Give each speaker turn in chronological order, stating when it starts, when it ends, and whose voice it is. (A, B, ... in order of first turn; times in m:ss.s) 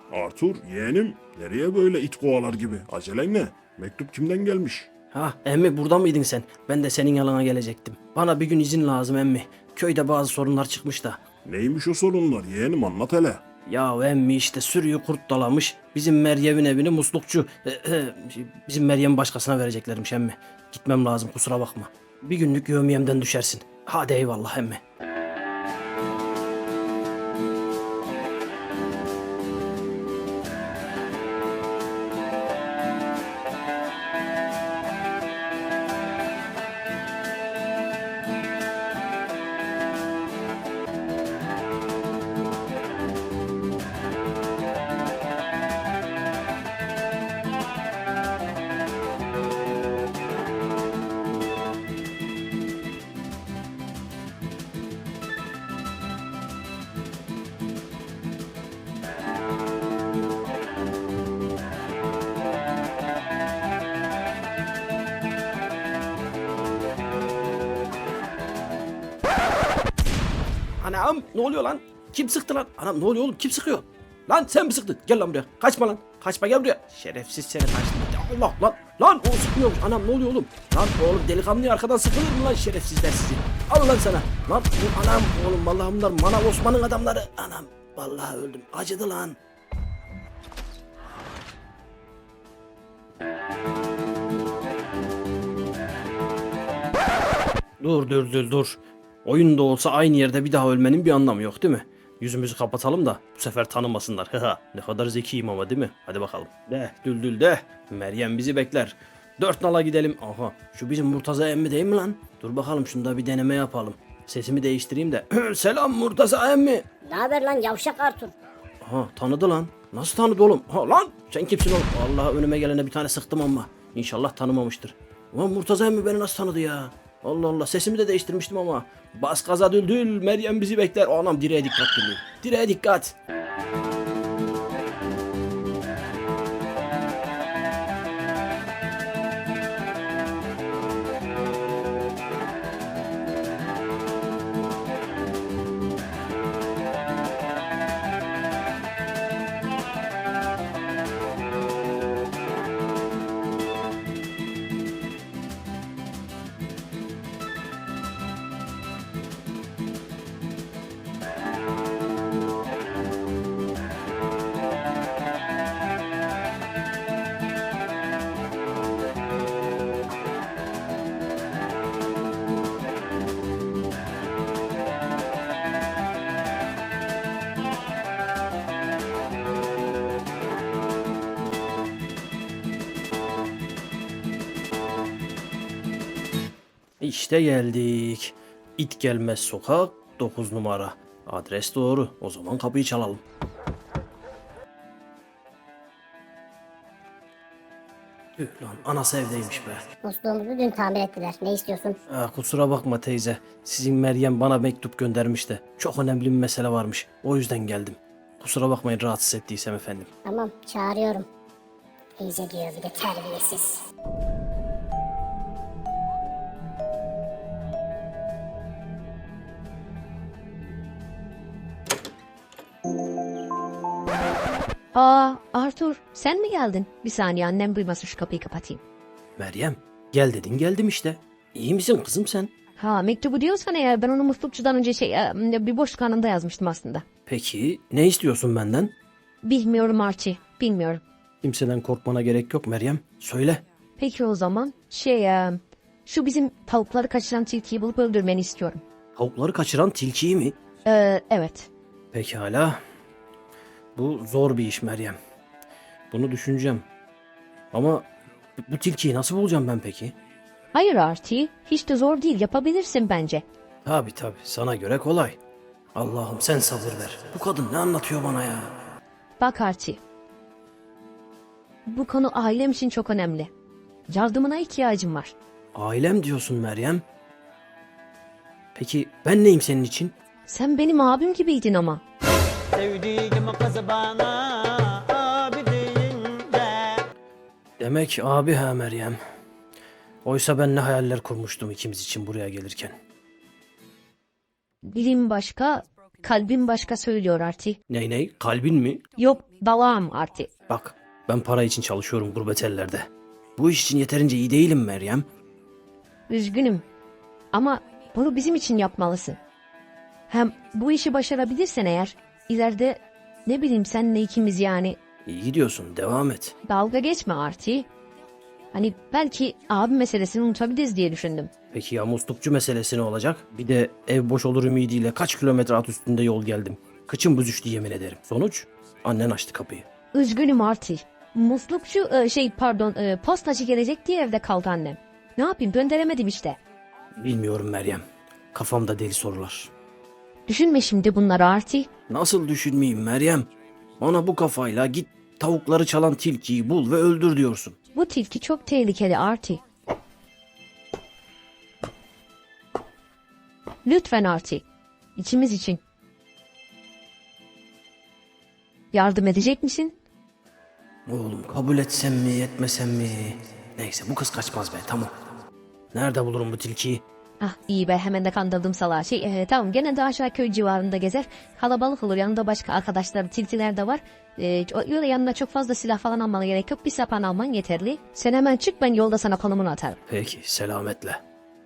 0:00.1-0:04.9 A
0:05.1-0:11.2 B
0:11.4-0:13.4 A
0:13.7-0:24.8 B
1:10.8-1:29.4 B
1:37.8-1:56.9 B
1:57.0-1:58.3 C
1:58.8-2:13.1 B
3:07.0-3:13.2 B
3:18.4-3:19.8 B
3:20.0-3:22.0 C
3:22.1-3:30.1 B
3:30.2-3:31.3 C
3:32.2-3:33.8 C
3:44.9-3:48.8 D
3:49.4-3:52.5 B
3:52.8-3:57.0 D
3:57.2-3:58.9 B
3:59.4-4:01.0 D
4:01.4-4:03.6 B
4:04.0-4:08.8 D
4:09.2-4:10.6 B
4:10.8-4:11.7 D
4:12.1-4:12.8 B
4:13.9-4:15.2 B
4:16.1-4:16.8 B
4:17.7-4:20.2 B
4:20.7-4:23.4 D
4:23.8-4:25.4 B
4:25.9-4:28.7 B
4:29.4-4:30.0 D
4:31.9-4:33.5 D
4:34.1-4:35.3 D
4:35.8-4:37.0 B
4:38.8-4:40.1 B
4:40.5-4:42.0 D
4:43.1-4:46.9 E
4:43.9-4:44.2 D
4:47.8-4:49.2 B
4:50.2-4:52.9 B
4:54.9-4:57.8 D
4:57.9-4:59.0 B
4:59.2-5:00.5 D
5:00.7-5:05.2 B
5:06.3-5:06.8 D
5:07.5-5:09.4 D
5:10.3-5:15.0 D
5:15.2-5:16.6 B
5:16.7-5:17.9 D
5:18.7-5:21.5 D
5:21.7-5:29.9 B
5:30.1-5:36.6 D
5:37.2-5:39.7 B
5:40.5-5:41.9 D
5:42.1-5:43.5 B
5:44.0-5:47.8 B
5:47.9-5:49.6 D
5:53.8-5:54.6 D
5:55.2-5:55.8 D
5:58.9-6:00.0 D
6:01.1-6:05.1 B
6:05.9-6:07.0 B
6:07.4-6:20.0 D
6:20.1-6:21.2 B